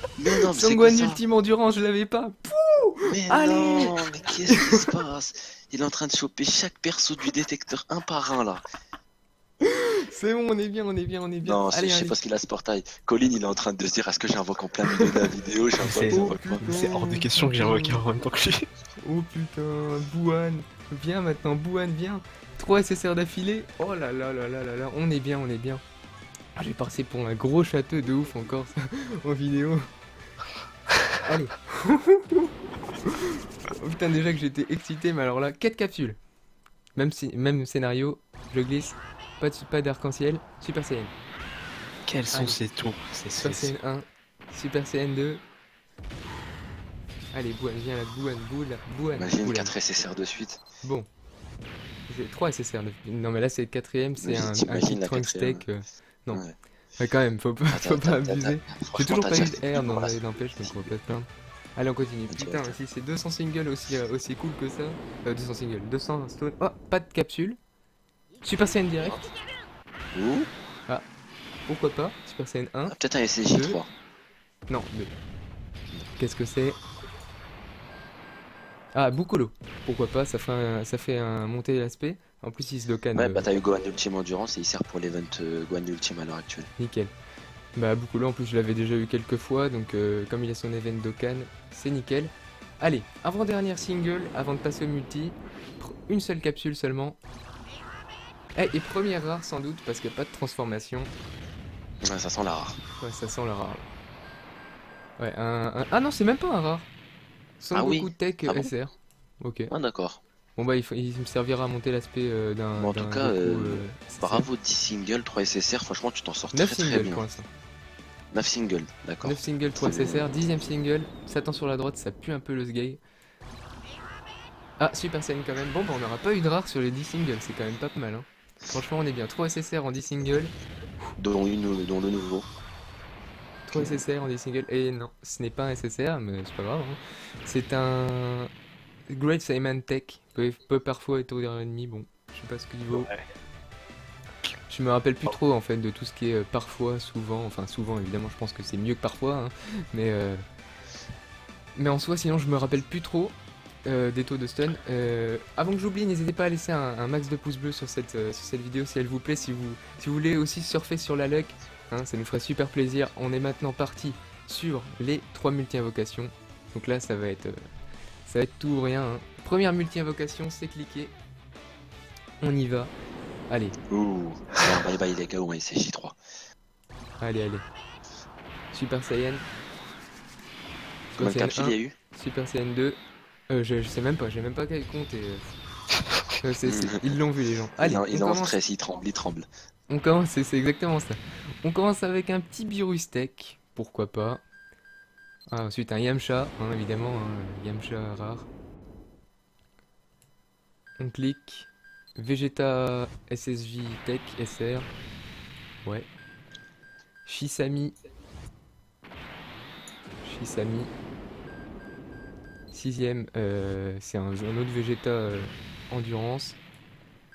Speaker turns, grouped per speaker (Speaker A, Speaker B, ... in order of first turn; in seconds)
Speaker A: 0.2-1.2, 3.0-8.6, 11.4-16.6, 49.1-50.6, 54.2-55.6, 56.3-56.6, 57.7-61.0, 62.3-62.8, 70.1-70.5, 72.9-73.9, 83.1-86.7, 102.0-102.8, 107.7-108.7, 109.7-110.2, 112.8-117.2, 118.3-120.2, 131.2-132.5, 133.7-134.0, 173.9-176.2, 181.2-181.9, 186.6-187.1, 187.8-189.5
Speaker B: 0.5-4.9, 9.6-12.2, 16.1-18.0, 19.0-25.8, 26.6-29.9, 31.2-32.5, 33.0-36.2, 37.0-41.1, 42.3-42.6, 43.4-45.4, 47.3-49.8, 50.8-51.1, 52.1-56.5, 57.0-67.6, 68.4-69.3, 71.7-73.8, 74.7-75.2, 76.2-76.8, 78.9-83.5, 86.8-87.1, 87.8-97.2, 98.5-101.1, 103.0-103.9, 105.2-106.9, 107.6-109.7, 110.6-114.5, 116.5-117.5, 119.2-123.0, 124.8-130.5, 133.7-138.5, 139.1-143.1, 144.7-150.4, 151.8-167.6, 168.3-171.1, 172.4-172.9, 173.5-173.8, 177.2-177.7, 178.7-179.5, 181.1-183.0, 183.5-185.6, 186.4-188.6, 189.9-194.4, 195.5-198.5, 201.0-204.9, 205.8-206.1, 207.3-208.0, 210.2-210.9, 212.7-216.6
Speaker C: 15.8-18.7, 42.1-43.8, 142.9-143.3